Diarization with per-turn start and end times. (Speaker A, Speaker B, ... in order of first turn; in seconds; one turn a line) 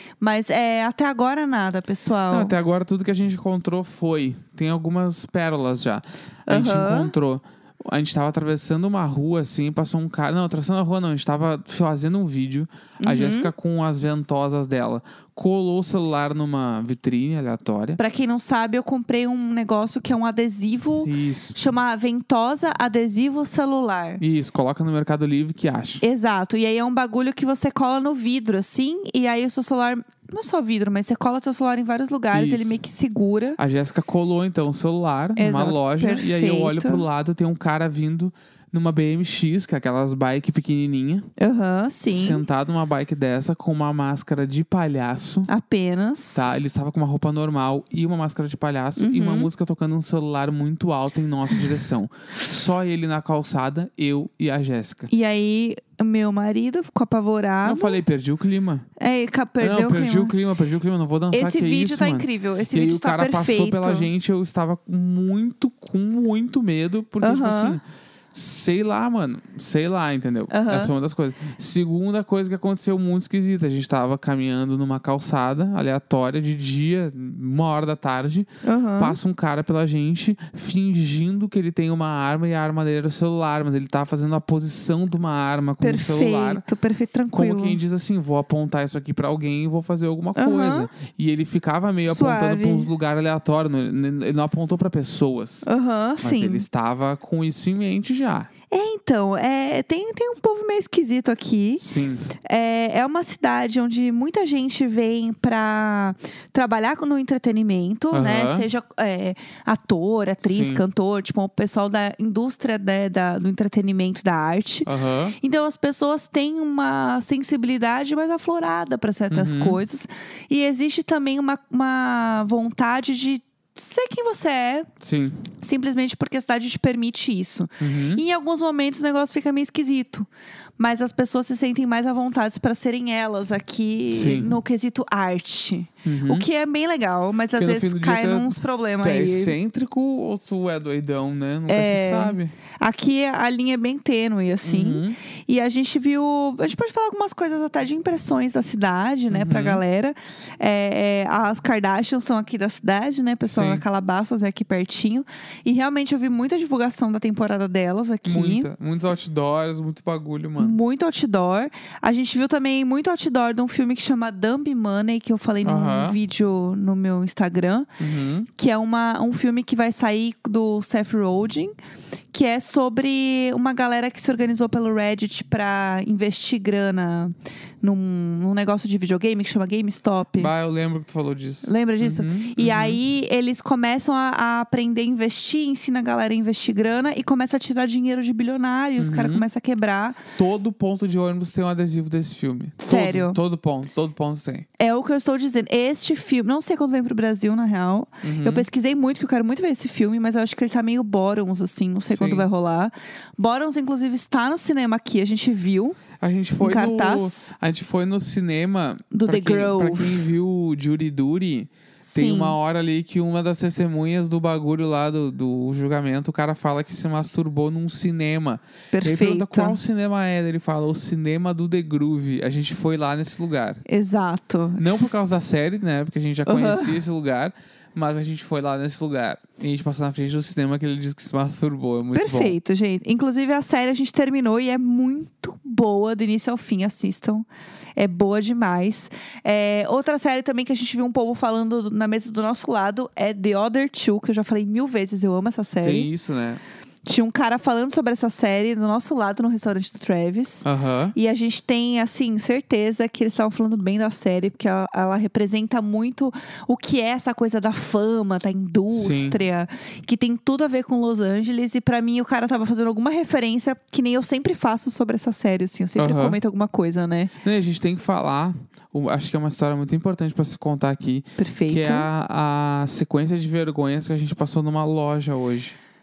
Speaker A: 0.2-2.5
Speaker B: 2.3-18.0
Speaker A: 6.5-7.1
Speaker A: 13.0-13.5
Speaker A: 18.0-24.2
Speaker B: 21.0-21.6
Speaker B: 24.2-26.0
Speaker A: 26.0-33.6
Speaker B: 32.3-32.8
Speaker B: 33.6-41.3
Speaker A: 35.4-37.0
Speaker A: 41.4-42.4
Speaker B: 42.1-45.5
Speaker A: 45.5-46.5
Speaker B: 46.3-55.1
Speaker A: 49.0-49.5
Speaker A: 55.1-58.0
Speaker B: 57.6-58.9
Speaker A: 59.0-60.3
Speaker B: 59.6-78.5
Speaker A: 61.3-64.1
Speaker A: 67.2-67.8
Speaker A: 70.5-70.9
Speaker A: 78.6-79.2
Speaker B: 79.0-86.6
Speaker A: 85.8-87.8
Speaker B: 87.3-95.7
Speaker A: 90.3-90.9
Speaker A: 92.0-92.9
Speaker A: 95.6-96.6
Speaker B: 96.2-98.5
Speaker A: 98.7-101.8
Speaker B: 101.8-102.3
Speaker A: 102.4-124.9
Speaker B: 108.1-108.7
Speaker B: 110.4-110.8
Speaker B: 114.8-115.4
Speaker B: 119.3-119.8
Speaker B: 125.0-125.5
Speaker A: 125.6-139.6
Speaker B: 127.8-128.2
Speaker B: 134.1-134.6
Speaker B: 136.0-136.4
Speaker B: 137.6-142.5
Speaker A: 141.7-158.7
Speaker B: 144.6-145.2
Speaker B: 149.3-149.8
Speaker B: 153.5-153.8
Speaker B: 158.2-160.8
Speaker A: 160.6-167.9
Speaker B: 165.6-166.2
Speaker B: 168.0-168.5
Speaker A: 168.5-171.7
Speaker A: 172.3-180.5
Speaker B: 180.3-183.0
Speaker A: 181.6-190.2
Speaker B: 189.0-189.5
Speaker B: 190.3-194.7
Speaker A: 192.8-193.4
Speaker A: 194.8-206.0
Speaker B: 198.2-198.7
Speaker B: 202.1-202.5
Speaker B: 206.2-223.8
Speaker A: 206.6-207.5
Speaker A: 209.1-210.3
Speaker A: 212.0-212.6
Speaker A: 218.9-219.8
Speaker A: 223.8-225.1
Speaker B: 224.8-232.6
Speaker A: 226.5-227.0
Speaker A: 232.1-246.1
Speaker B: 245.8-246.6
Speaker A: 247.0-267.3
Speaker B: 250.6-251.1
Speaker B: 258.9-259.4
Speaker B: 265.9-266.4
Speaker B: 267.4-275.8
Speaker A: 271.4-272.1